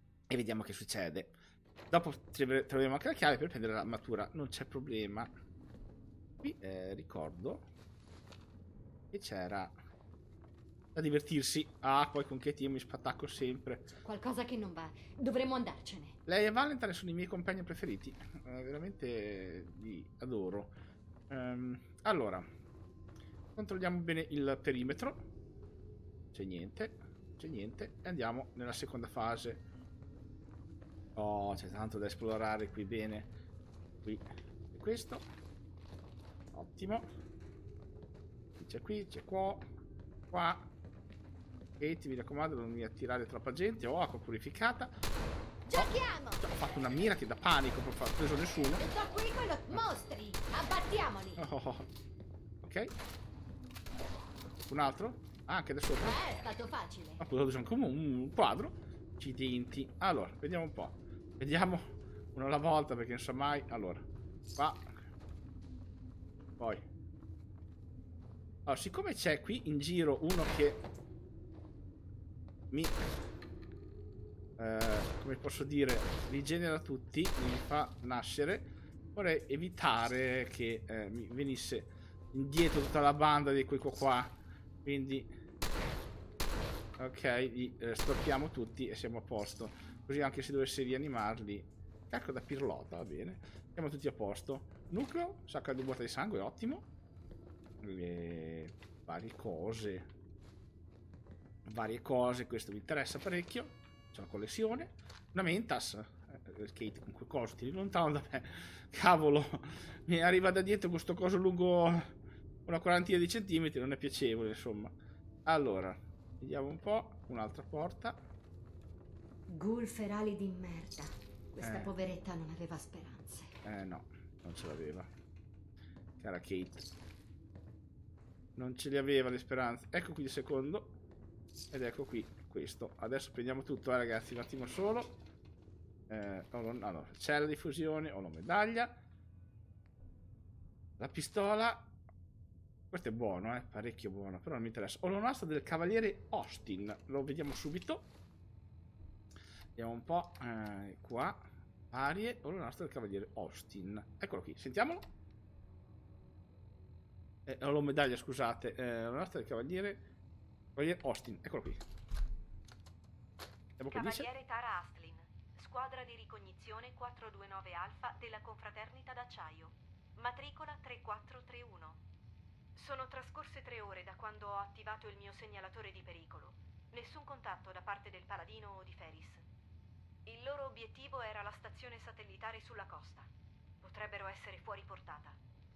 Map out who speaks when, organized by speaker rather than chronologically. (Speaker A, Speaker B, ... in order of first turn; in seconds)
Speaker A: 0.3-1.3, 1.9-5.3, 6.4-7.6, 9.1-9.7, 10.9-13.9, 16.2-20.7, 21.3-22.4, 23.5-25.3, 26.3-29.6, 31.1-33.3, 34.0-35.3, 36.5-37.1, 38.6-39.6, 40.3-40.7, 41.8-44.9, 45.7-48.8, 51.4-51.9, 52.6-52.9, 54.7-56.2, 57.2-64.9, 68.7-70.8, 72.7-73.0, 74.6-85.3, 87.0-96.9, 97.8-100.0, 101.7-112.1, 112.7-114.9, 115.5-118.2, 121.6-121.9, 123.6-125.1, 126.2-126.8, 128.6-130.9, 131.7-135.2, 136.1-138.9, 141.0-141.9, 142.9-148.1, 149.8-155.1, 157.4-160.0, 160.7-161.8, 163.8-164.3
Speaker B: 14.0-16.1, 45.6-46.4, 48.8-51.4, 56.0-57.2, 119.5-123.5
Speaker C: 163.9-172.0, 172.7-179.4, 180.2-183.3, 183.8-185.4